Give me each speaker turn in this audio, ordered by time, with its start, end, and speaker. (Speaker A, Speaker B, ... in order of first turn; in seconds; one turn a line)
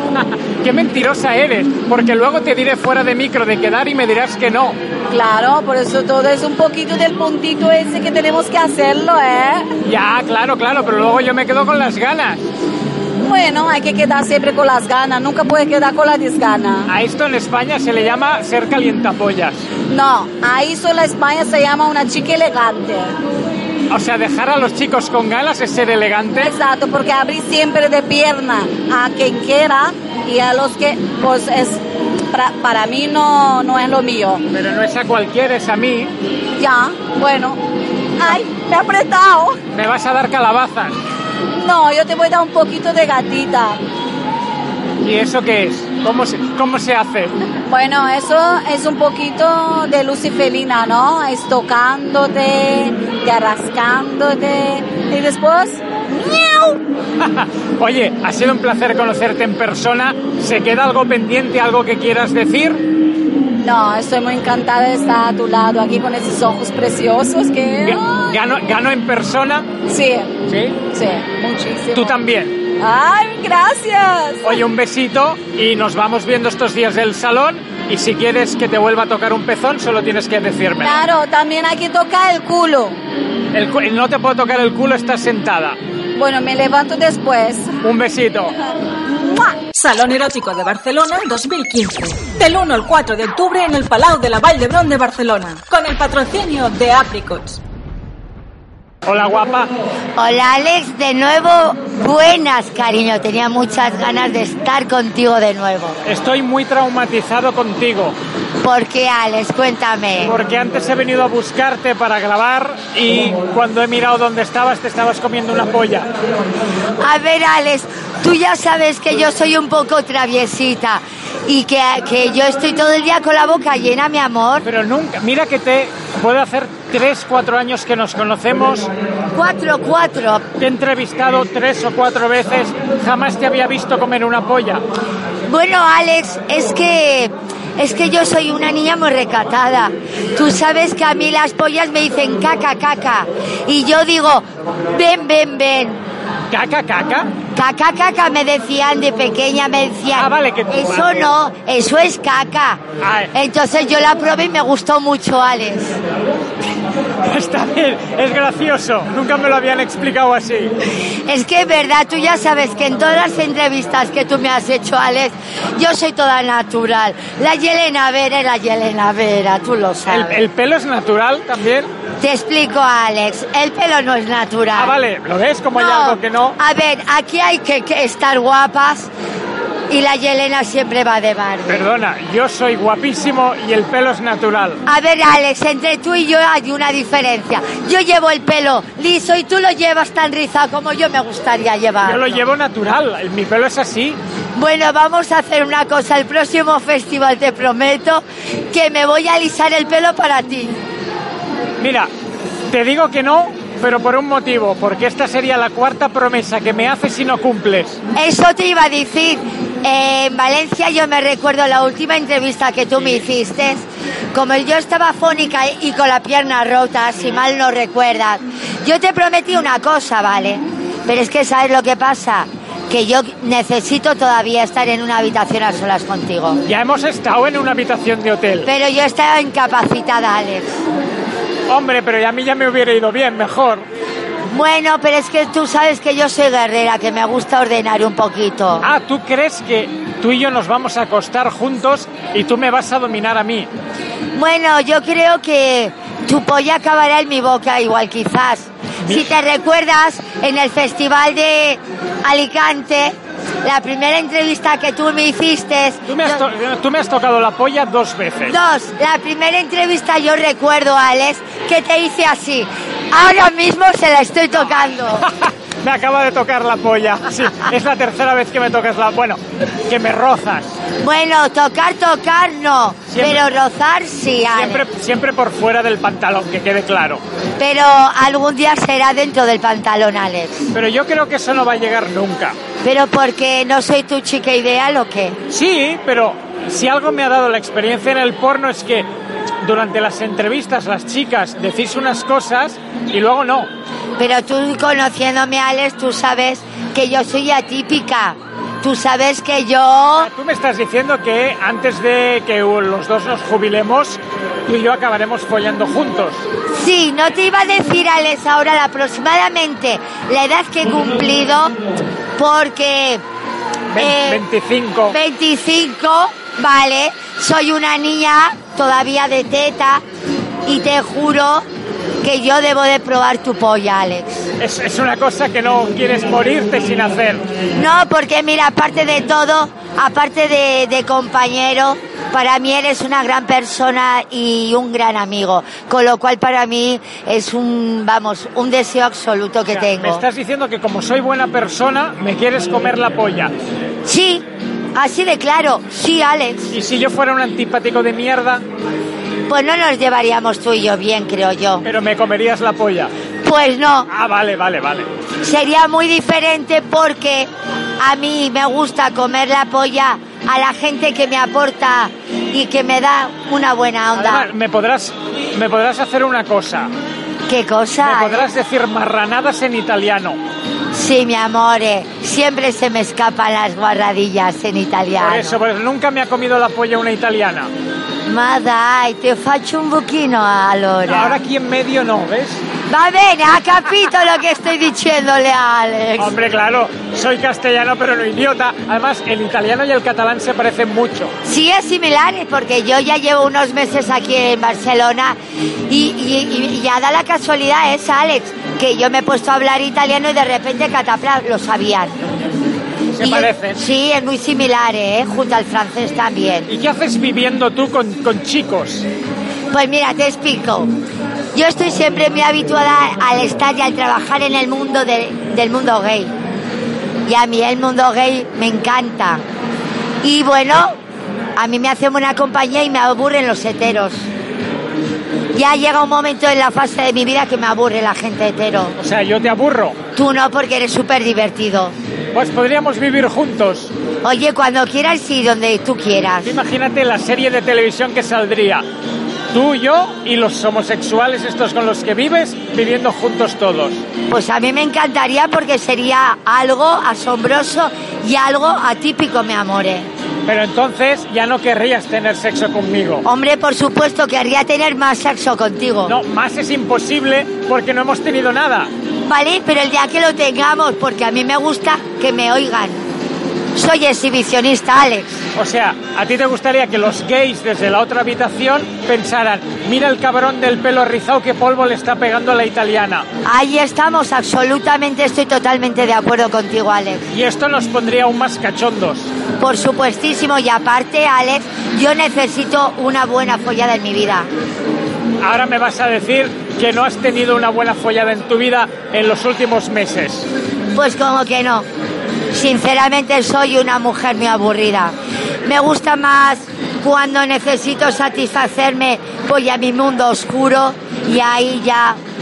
Speaker A: 0.1-4.8
Speaker B: 5.1-9.7
Speaker A: 9.8-12.5
Speaker B: 13.2-16.9
Speaker A: 16.9-19.7
Speaker B: 19.9-23.1
Speaker A: 23.9-26.5
Speaker B: 26.4-34.4
Speaker A: 34.5-36.1
Speaker B: 36.6-37.6
Speaker B: 38.2-39.6
Speaker A: 39.7-41.0
Speaker B: 41.5-43.8
Speaker A: 45.0-47.3
Speaker B: 47.7-56.8
Speaker A: 57.2-62.8
Speaker B: 63.6-68.3
Speaker A: 67.8-69.7
Speaker B: 69.9-72.2
Speaker A: 70.5-70.8
Speaker A: 71.9-72.6
Speaker B: 72.8-74.6
Speaker A: 74.4-81.0
Speaker B: 80.8-83.0
Speaker A: 83.5-85.8
Speaker B: 86.2-87.7
Speaker A: 87.8-88.5
Speaker B: 89.1-89.5
Speaker C: 89.7-97.6
Speaker A: 99.0-99.7
Speaker D: 100.2-106.0
Speaker A: 106.0-108.2
Speaker D: 108.6-110.3
Speaker A: 110.2-116.1
Speaker D: 117.0-124.6
Speaker A: 124.6-128.9
Speaker D: 129.3-130.4
Speaker A: 130.6-134.8
Speaker D: 135.5-146.0
Speaker A: 146.5-147.3
Speaker D: 147.5-152.8
Speaker A: 150.1-151.1
Speaker A: 153.0-153.3
Speaker D: 153.3-156.0
Speaker A: 157.2-160.7
Speaker D: 161.2-170.4
Speaker A: 170.1-171.9
Speaker D: 172.2-174.9
Speaker A: 174.7-176.6
Speaker D: 175.7-179.1
Speaker D: 179.9-181.8
Speaker A: 181.7-184.8
Speaker D: 184.8-192.4
Speaker A: 192.0-194.2
Speaker D: 194.6-200.8
Speaker A: 201.8-202.1
Speaker A: 202.7-208.0
Speaker D: 208.1-226.6
Speaker A: 226.6-228.7
Speaker D: 228.6-230.7
Speaker A: 231.7-233.8
Speaker D: 234.5-238.8
Speaker A: 238.8-243.7
Speaker D: 244.3-256.4
Speaker A: 256.1-258.6
Speaker D: 258.5-265.3
Speaker A: 265.2-270.8
Speaker D: 271.0-274.9
Speaker A: 273.1-273.4
Speaker A: 274.5-277.2
Speaker D: 277.6-280.6
Speaker A: 280.7-282.6
Speaker D: 282.8-285.4
Speaker A: 285.5-289.1
Speaker A: 289.6-293.7
Speaker D: 294.2-300.3
Speaker A: 300.2-306.4
Speaker D: 306.7-311.8
Speaker D: 312.4-313.2
Speaker A: 313.9-315.1
Speaker D: 313.9-314.4
Speaker D: 315.1-320.0
Speaker D: 320.6-321.6
Speaker D: 322.2-324.5
Speaker A: 324.6-327.4
Speaker D: 327.7-340.2
Speaker A: 339.7-343.5
Speaker D: 344.0-346.7
Speaker A: 346.7-348.6
Speaker D: 349.5-351.8
Speaker A: 351.8-353.1
Speaker D: 353.4-354.1
Speaker A: 354.1-355.1
Speaker D: 355.4-364.5
Speaker A: 364.1-366.9
Speaker D: 367.5-368.5
Speaker A: 368.0-370.4
Speaker D: 370.9-375.6
Speaker A: 375.2-377.7
Speaker D: 378.2-381.4
Speaker A: 381.1-382.6
Speaker D: 382.9-386.3
Speaker A: 386.2-391.3
Speaker D: 391.4-395.4
Speaker D: 395.9-402.2
Speaker A: 403.1-403.8
Speaker D: 403.2-406.7
Speaker A: 406.7-409.1
Speaker D: 409.7-410.9
Speaker D: 411.5-416.3
Speaker D: 417.2-419.4
Speaker D: 420.2-421.0
Speaker D: 421.6-424.3
Speaker D: 425.5-428.9
Speaker A: 429.0-430.0
Speaker D: 430.1-431.9
Speaker A: 432.3-433.9
Speaker D: 434.2-436.6
Speaker A: 436.4-438.8
Speaker A: 439.5-444.0
Speaker D: 444.3-450.1
Speaker A: 450.4-453.2
Speaker D: 453.2-456.1
Speaker A: 456.1-458.9
Speaker D: 459.2-463.0
Speaker D: 463.7-465.4
Speaker A: 465.5-473.3
Speaker D: 473.4-477.3
Speaker A: 477.3-479.3
Speaker D: 479.6-484.5
Speaker A: 485.4-490.5
Speaker D: 490.9-491.9
Speaker D: 492.5-502.2